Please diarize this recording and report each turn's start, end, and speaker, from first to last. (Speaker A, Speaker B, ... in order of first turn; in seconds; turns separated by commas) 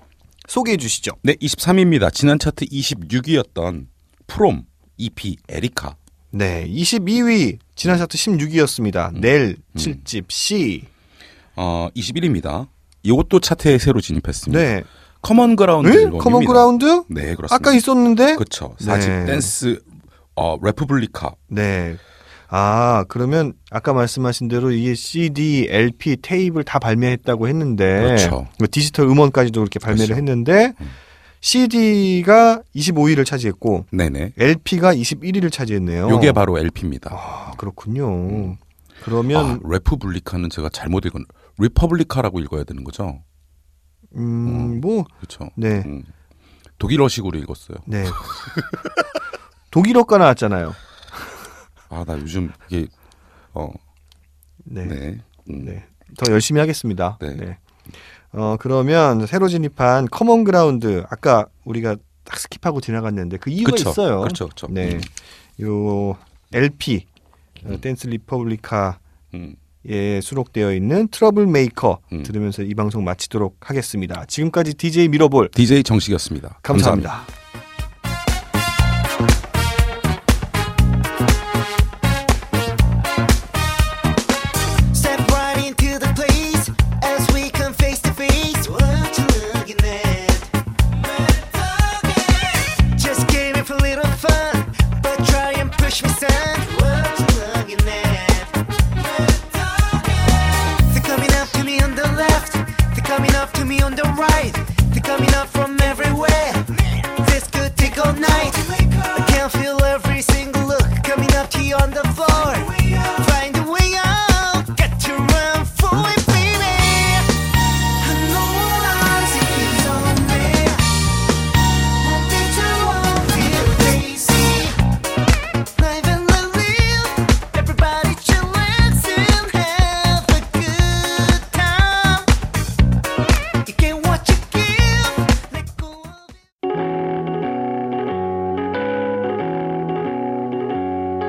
Speaker A: 0.5-1.2, Speaker B: 1.2-6.0, Speaker A: 6.3-10.9, Speaker B: 9.1-10.0, Speaker B: 11.6-14.7, Speaker A: 14.5-14.9, Speaker B: 15.2-17.8, Speaker A: 15.8-19.5, Speaker B: 18.3-21.4, Speaker A: 21.5-30.8, Speaker B: 28.0-28.5, Speaker B: 29.9-30.2, Speaker A: 31.4-36.4, Speaker B: 33.9-34.3, Speaker B: 36.0-37.2, Speaker A: 37.1-39.6, Speaker B: 38.3-38.6, Speaker B: 39.3-43.2, Speaker A: 44.1-45.9, Speaker B: 44.4-46.1, Speaker B: 46.8-48.6, Speaker A: 47.9-48.2, Speaker A: 49.7-50.8, Speaker B: 51.9-52.9, Speaker B: 53.5-53.8, Speaker A: 54.6-55.0, Speaker B: 54.8-55.7, Speaker A: 55.6-57.6, Speaker A: 58.3-67.1, Speaker B: 63.6-65.1, Speaker A: 67.6-69.0, Speaker A: 69.8-75.5, Speaker B: 75.5-77.1, Speaker A: 76.6-77.3, Speaker C: 84.9-121.0, Speaker C: 121.9-124.8, Speaker C: 125.7-132.3, Speaker C: 133.6-136.4